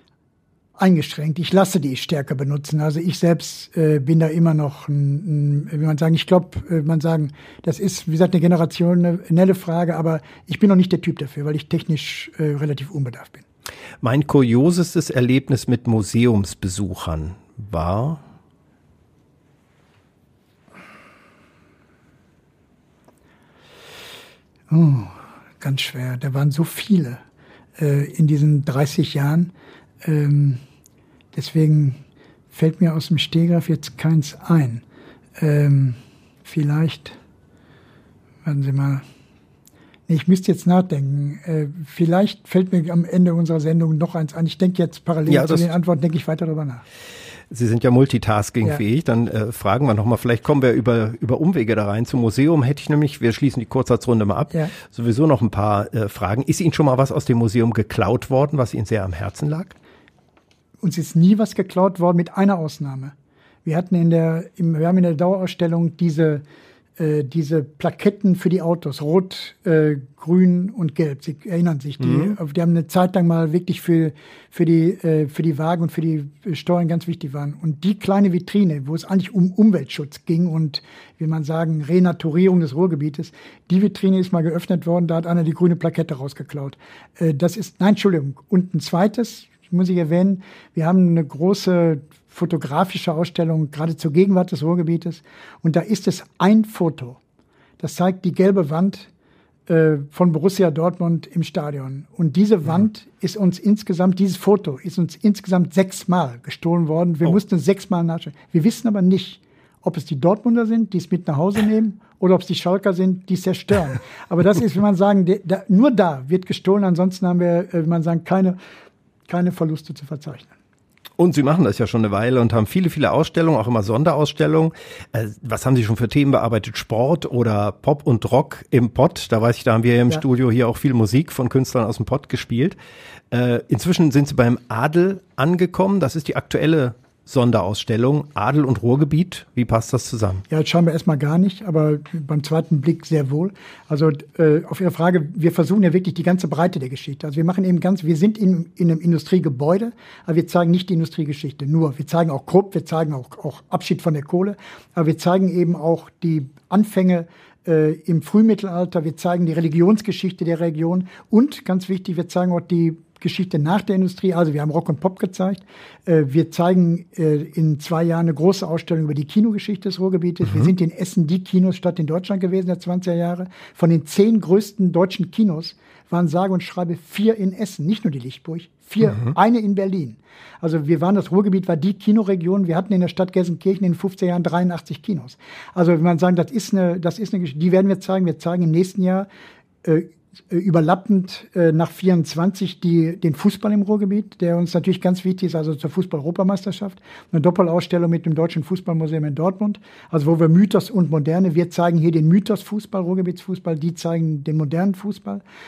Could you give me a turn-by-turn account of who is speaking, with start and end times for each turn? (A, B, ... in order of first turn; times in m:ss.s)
0:00.8-0:13.4 A
0:14.0-0:18.2 B
0:24.7-0:27.2 A
0:27.8-0:29.5 A
0:30.0-0:30.6 A
0:31.3-0:32.0 A
0:32.5-0:34.8 A
0:35.4-0:37.2 A
0:38.4-0:39.0 A
0:40.1-0:46.8 A
0:45.3-0:45.7 B
0:47.5-0:59.8 B
1:00.8-1:03.1 A
1:03.6-1:06.4 A
1:07.0-1:37.2 A
1:12.0-1:12.4 B
1:37.8-1:39.1 A
1:39.7-1:58.6 A
1:59.3-2:00.5 A
2:01.2-2:12.8 B
2:13.3-2:20.4 B
2:20.5-3:09.3 A
3:09.8-3:25.4 A